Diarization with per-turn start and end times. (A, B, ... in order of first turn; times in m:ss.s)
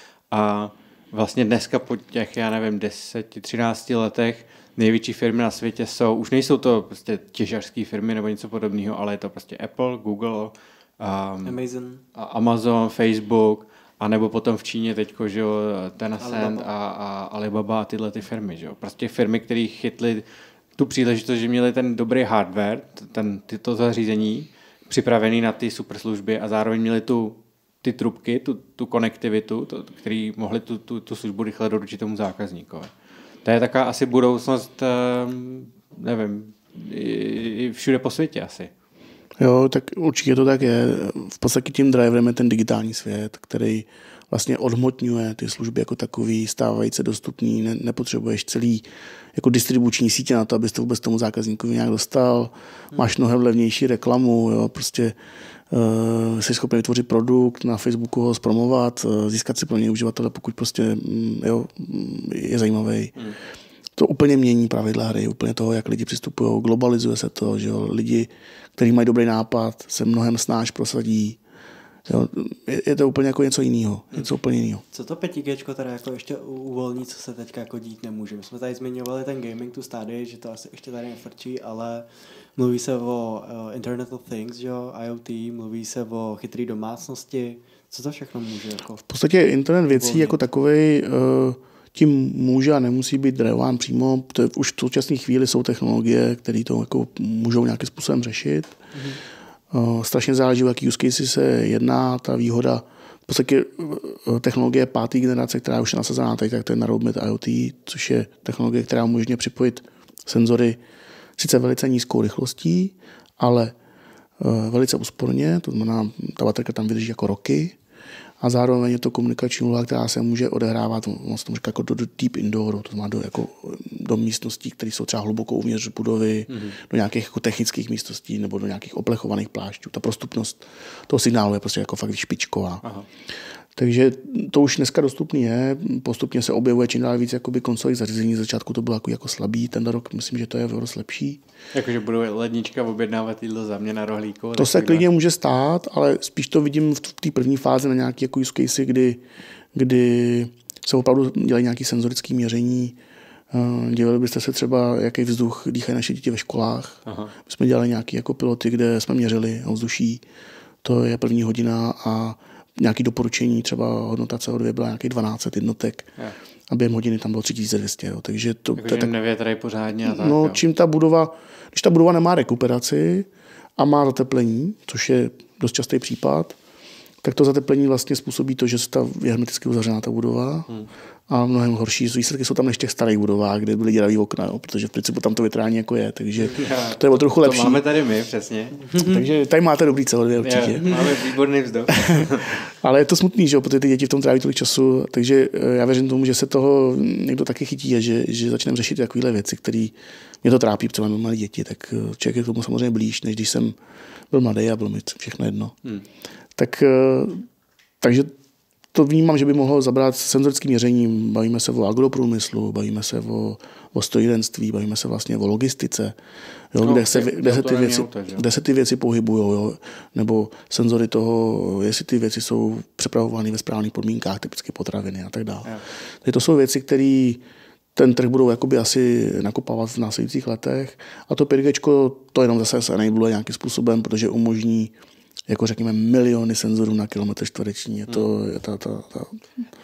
0:00.3-0:11.6 A
0:11.4-0:12.0 B
0:12.1-0:20.2 A
0:16.2-0:16.7 B
0:20.8-0:32.9 A
0:33.4-0:38.7 A
0:39.4-0:48.8 C
0:49.4-0:55.1 C
0:55.7-1:03.1 C
1:04.0-1:11.4 C
1:12.1-1:14.8 C
1:14.9-1:29.0 B
1:29.1-1:38.8 C
1:29.9-1:30.4 B
1:38.9-1:39.2 B
1:39.7-1:50.8 C
1:51.4-1:53.7 C
1:54.4-1:57.8 C
1:58.4-2:12.8 C
2:06.5-2:06.8 A
2:13.8-2:21.4 C
2:21.7-2:25.0 A
2:24.6-2:29.2 C
2:29.7-2:33.0 C
2:33.5-2:40.2 C
2:37.0-2:37.3 A
2:40.8-2:46.1 C
2:46.7-2:49.1 C
2:48.8-2:50.6 A
2:50.0-2:56.5 C
2:57.2-3:00.7 C
3:01.3-3:07.8 C
3:06.5-3:08.8 A
3:08.9-3:09.2 B
3:08.9-3:10.8 C
3:10.4-3:12.6 A
3:10.8-3:11.1 B
3:12.0-3:23.8 C
3:24.3-3:25.7 C
3:26.6-3:27.4 C
3:28.0-3:28.3 C
3:28.9-3:36.1 C
3:36.7-3:47.4 C
3:36.8-3:38.4 A
3:47.9-3:54.9 C
3:55.5-3:59.4 C